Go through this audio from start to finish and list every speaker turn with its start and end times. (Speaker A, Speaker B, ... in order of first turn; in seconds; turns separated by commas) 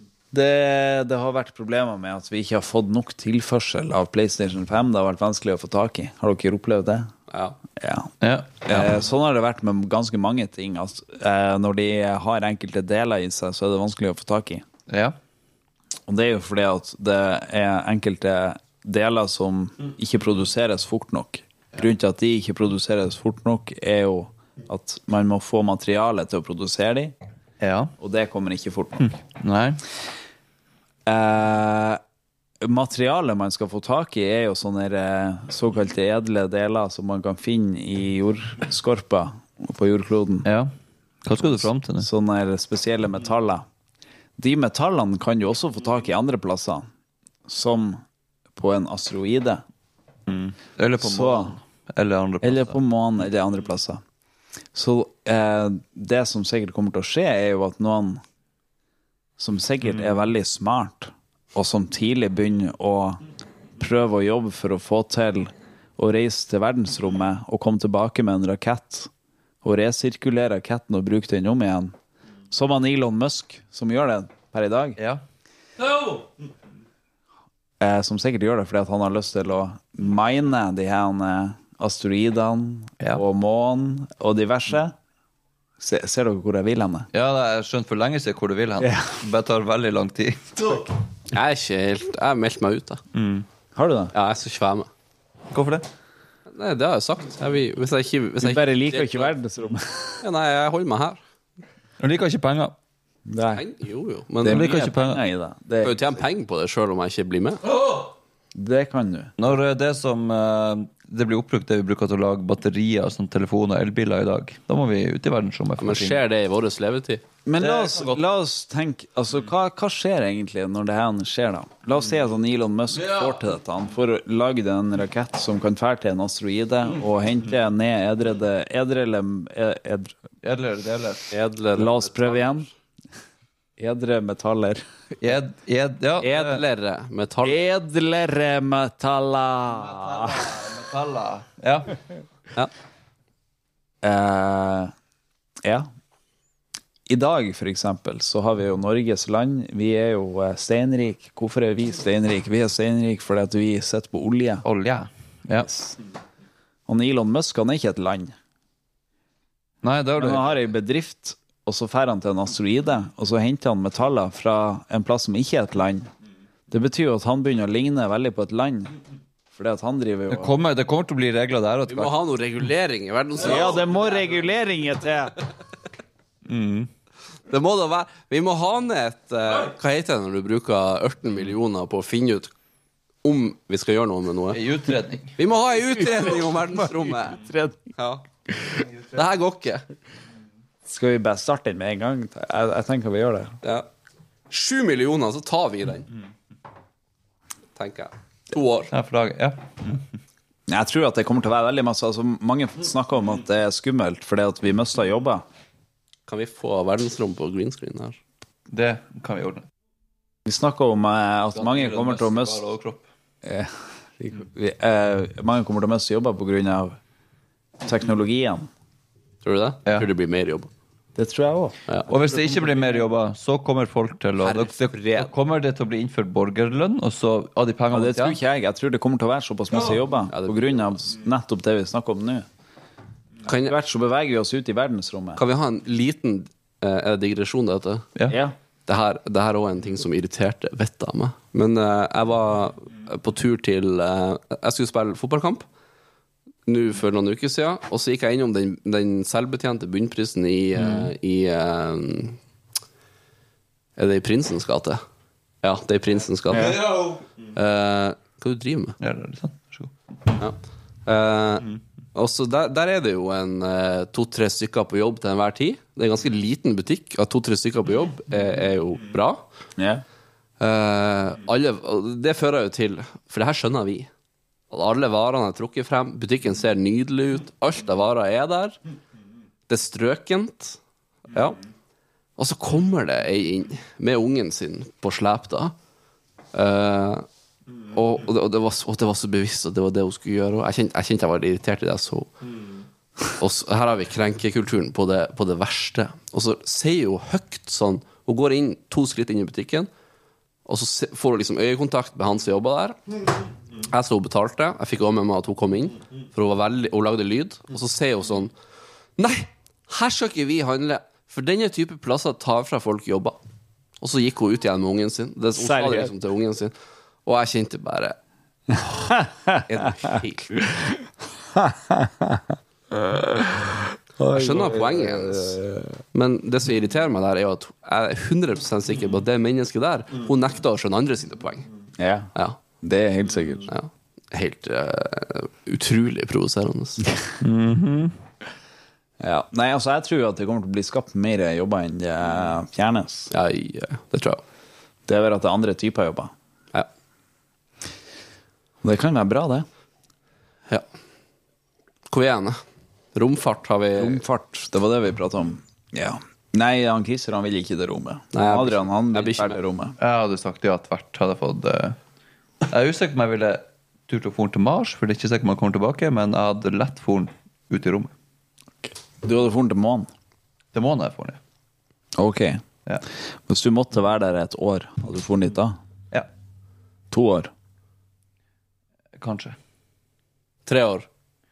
Speaker A: 0.3-7.1, Speaker B: 7.3-7.6, Speaker A: 7.8-8.1, Speaker C: 8.2-9.0, Speaker A: 8.7-14.6, Speaker C: 14.9-15.1, Speaker A: 16.1-27.1, Speaker C: 27.6-27.9, Speaker A: 28.0-29.1, Speaker C: 29.1-29.8, Speaker A: 31.1-32.0, Speaker A: 32.6-40.5, Speaker C: 40.4-40.7, Speaker C: 41.2-42.1, Speaker A: 41.4-43.6, Speaker A: 44.4-46.9, Speaker A: 47.5-48.0, Speaker A: 48.6-49.6, Speaker C: 50.3-52.8, Speaker A: 51.0-51.6, Speaker A: 52.4-54.0, Speaker A: 54.8-58.2, Speaker A: 59.4-63.2, Speaker A: 63.8-69.1, Speaker A: 69.6-71.9, Speaker A: 72.5-75.0, Speaker C: 75.0-75.2, Speaker A: 77.8-84.9, Speaker A: 85.8-87.1, Speaker C: 87.1-90.8, Speaker A: 88.8-89.2, Speaker B: 91.3-93.0, Speaker C: 93.1-93.5, Speaker A: 93.8-94.1, Speaker B: 94.1-94.9, Speaker C: 95.5-95.9, Speaker B: 96.5-99.3, Speaker A: 98.4-100.2, Speaker B: 100.2-101.2, Speaker C: 102.0-102.8, Speaker A: 103.3-103.6, Speaker B: 103.5-104.7, Speaker A: 104.4-106.0, Speaker C: 104.4-105.2, Speaker B: 105.8-107.6, Speaker C: 107.7-108.0, Speaker A: 108.5-109.3, Speaker C: 109.4-116.2, Speaker B: 115.8-117.2, Speaker A: 117.4-130.2, Speaker C: 117.6-118.2, Speaker C: 130.4-131.3, Speaker B: 131.3-132.6, Speaker A: 131.8-132.7, Speaker A: 133.8-134.8, Speaker C: 135.2-136.6, Speaker B: 136.2-137.6, Speaker A: 137.4-140.5, Speaker C: 139.7-142.0, Speaker A: 144.0-144.9, Speaker A: 147.1-154.6, Speaker C: 154.6-155.7, Speaker A: 155.6-156.0, Speaker A: 156.9-158.3, Speaker C: 159.8-160.5, Speaker A: 160.2-166.1, Speaker A: 166.7-168.9, Speaker A: 169.5-170.6, Speaker C: 170.3-172.1, Speaker B: 171.9-173.8, Speaker A: 173.4-175.4, Speaker C: 176.5-176.9, Speaker B: 177.5-182.5, Speaker B: 183.2-184.7, Speaker C: 184.5-185.4, Speaker B: 185.4-187.4, Speaker A: 186.3-187.8, Speaker B: 187.9-189.8, Speaker A: 190.9-193.6, Speaker B: 193.6-193.9, Speaker B: 194.5-196.1, Speaker B: 197.8-198.9, Speaker C: 198.9-200.0, Speaker A: 200.7-205.4, Speaker B: 206.3-208.2, Speaker C: 208.7-209.6, Speaker A: 210.5-212.6, Speaker C: 211.5-213.1, Speaker A: 213.4-217.0, Speaker A: 217.8-218.7, Speaker B: 219.4-220.7, Speaker A: 221.2-221.8, Speaker C: 222.1-228.4, Speaker B: 224.4-225.3, Speaker A: 227.9-232.4, Speaker B: 230.3-230.9, Speaker B: 233.4-233.7, Speaker A: 233.5-235.4, Speaker B: 235.4-238.1, Speaker A: 238.3-238.5, Speaker B: 238.9-245.6, Speaker B: 246.7-252.4, Speaker C: 250.8-251.1, Speaker B: 254.0-255.0, Speaker B: 255.6-259.0, Speaker A: 256.5-256.8, Speaker C: 256.8-257.1, Speaker C: 259.0-259.9, Speaker B: 260.4-269.4, Speaker A: 269.8-270.0, Speaker B: 270.6-274.1, Speaker B: 274.7-278.8, Speaker B: 279.7-280.8, Speaker B: 281.3-281.6, Speaker B: 282.4-285.7, Speaker B: 286.5-287.2, Speaker B: 287.9-292.3, Speaker B: 293.4-299.9, Speaker B: 300.6-303.0, Speaker B: 303.8-308.5, Speaker B: 309.2-313.4, Speaker B: 314.0-316.7, Speaker A: 315.6-316.1, Speaker B: 317.2-318.1, Speaker A: 318.7-319.6, Speaker B: 319.6-320.6, Speaker A: 321.6-322.4, Speaker A: 322.9-326.0, Speaker B: 324.3-325.6, Speaker B: 326.1-331.7, Speaker A: 332.0-333.7, Speaker B: 332.4-332.6, Speaker B: 333.7-337.1, Speaker C: 337.4-338.1, Speaker A: 339.2-343.3, Speaker B: 343.3-344.4, Speaker A: 345.1-346.3, Speaker A: 348.8-349.6, Speaker B: 352.1-352.6, Speaker B: 353.1-354.2, Speaker A: 354.0-360.0, Speaker B: 358.3-359.6, Speaker C: 360.0-362.0, Speaker C: 362.7-368.1, Speaker A: 369.2-370.1, Speaker C: 370.8-371.4, Speaker A: 372.2-372.6, Speaker A: 373.5-375.8, Speaker A: 377.1-377.5, Speaker C: 379.2-379.6, Speaker B: 380.6-381.1